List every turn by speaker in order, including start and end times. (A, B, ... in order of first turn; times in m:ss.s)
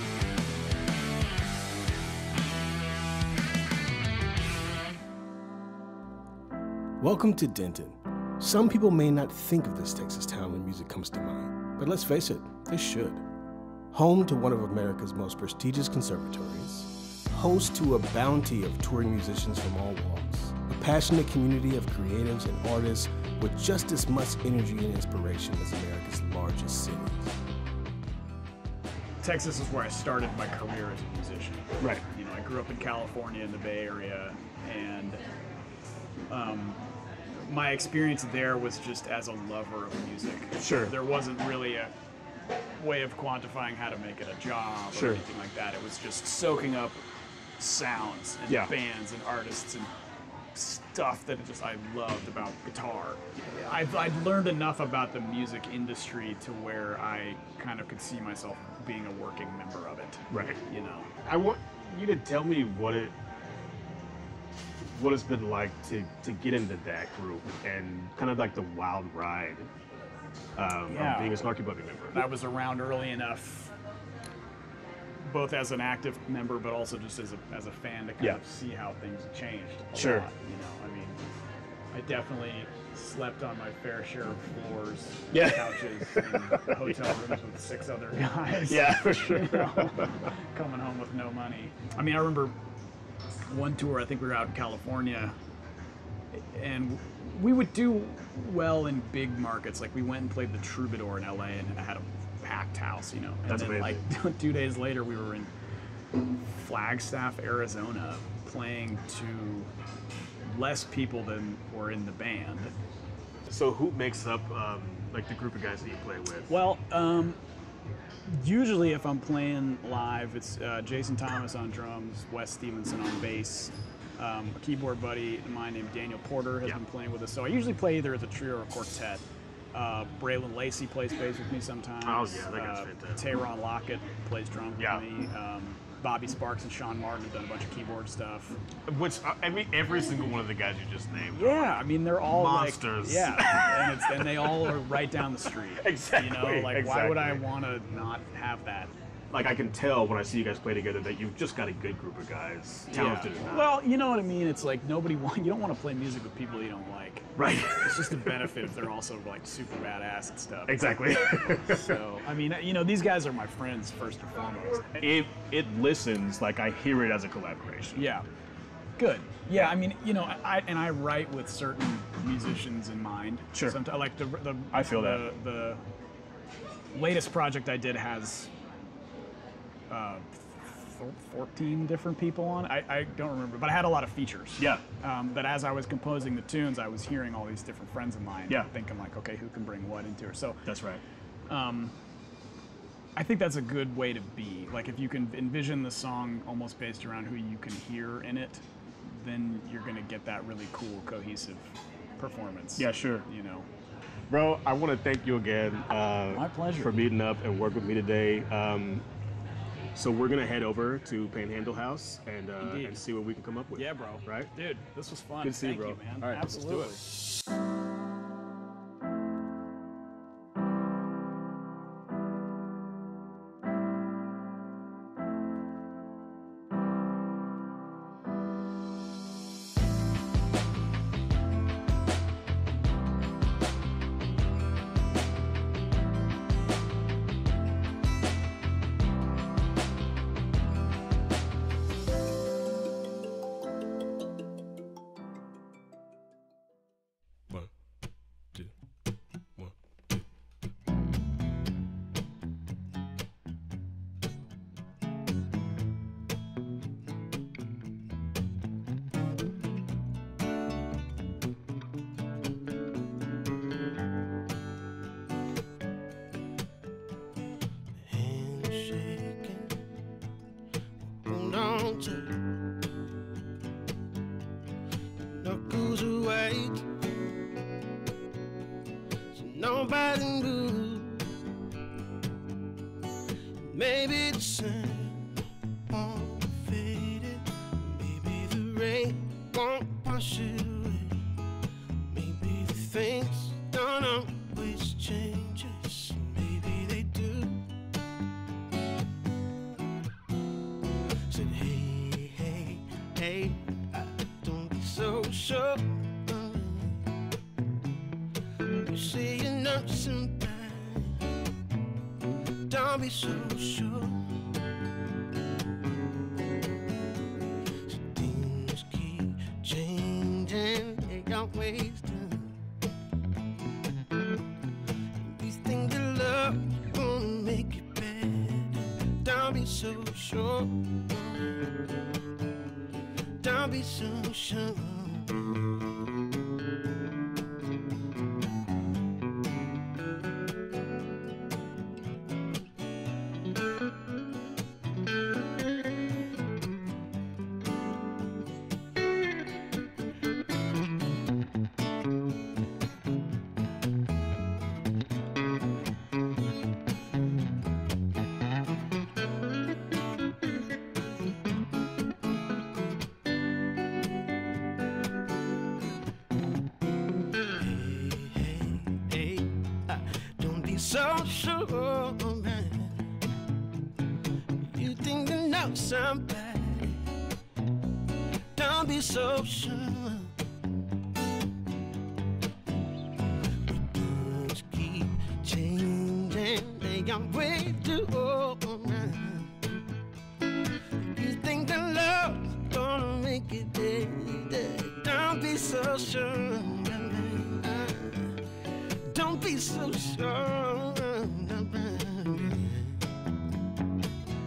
0:07.0-0:13.2 A
0:13.9-0:27.4 A
0:29.2-0:35.2 B
0:31.8-0:32.0 A
0:36.3-0:36.8 B
0:37.4-0:41.9 B
0:40.6-0:40.9 A
0:42.8-0:47.0 B
0:44.9-0:45.2 A
0:47.6-0:49.9 B
0:48.5-0:48.7 A
0:50.5-1:01.1 B
1:00.3-1:00.6 A
1:01.2-1:03.1 A
1:04.8-1:09.7 A
1:10.6-1:12.2 A
1:10.9-1:11.5 B
1:12.1-1:13.7 B
1:15.2-1:21.2 B
1:20.0-1:20.3 A
1:21.9-1:32.6 B
1:25.3-1:27.0 A
1:28.6-1:30.1 A
1:33.5-1:35.3 B
1:36.3-1:45.5 B
1:43.5-1:44.0 A
1:46.2-1:49.7 B
1:50.4-1:52.7 B
1:53.4-1:56.5 A
1:56.5-1:57.4 B
1:58.3-2:09.2 B
2:09.7-2:18.6 B
2:12.0-2:13.2 A
2:14.8-2:15.0 A
2:18.8-2:24.8 A
2:21.3-2:28.9 B
2:25.8-2:27.4 A
2:29.3-2:33.7 A
2:32.9-2:44.9 B
2:37.4-2:38.5 A
2:40.7-2:42.0 A
2:45.0-2:48.1 A
2:47.9-2:48.2 B
2:49.0-2:55.8 B
2:54.7-2:55.2 A
2:56.9-2:58.5 B
2:59.9-3:10.6 B
3:04.6-3:04.8 A
3:10.6-3:11.0 A
3:11.5-3:11.9 B
3:13.2-3:23.7 B
3:22.8-3:23.3 A
3:24.3-3:29.0 A
3:26.3-3:27.0 B
3:29.9-3:34.5 A
3:32.6-3:33.0 B
3:33.7-3:37.0 B
3:35.4-3:37.0 A
4:28.0-4:29.9 C
4:31.2-4:32.5 C
4:35.3-4:36.9 C
4:39.3-4:41.3 C
4:43.6-4:51.3 C
4:52.1-4:57.6 C
5:01.2-5:07.1 C
5:08.6-5:11.4 C
5:12.7-5:14.4 C
5:17.8-5:22.6 C
5:25.1-5:31.9 C
5:33.3-5:35.6 C
6:07.4-6:13.1 C
6:14.5-6:17.1 C
6:18.5-6:20.3 C
6:23.6-6:29.6 C
6:31.0-6:43.1 C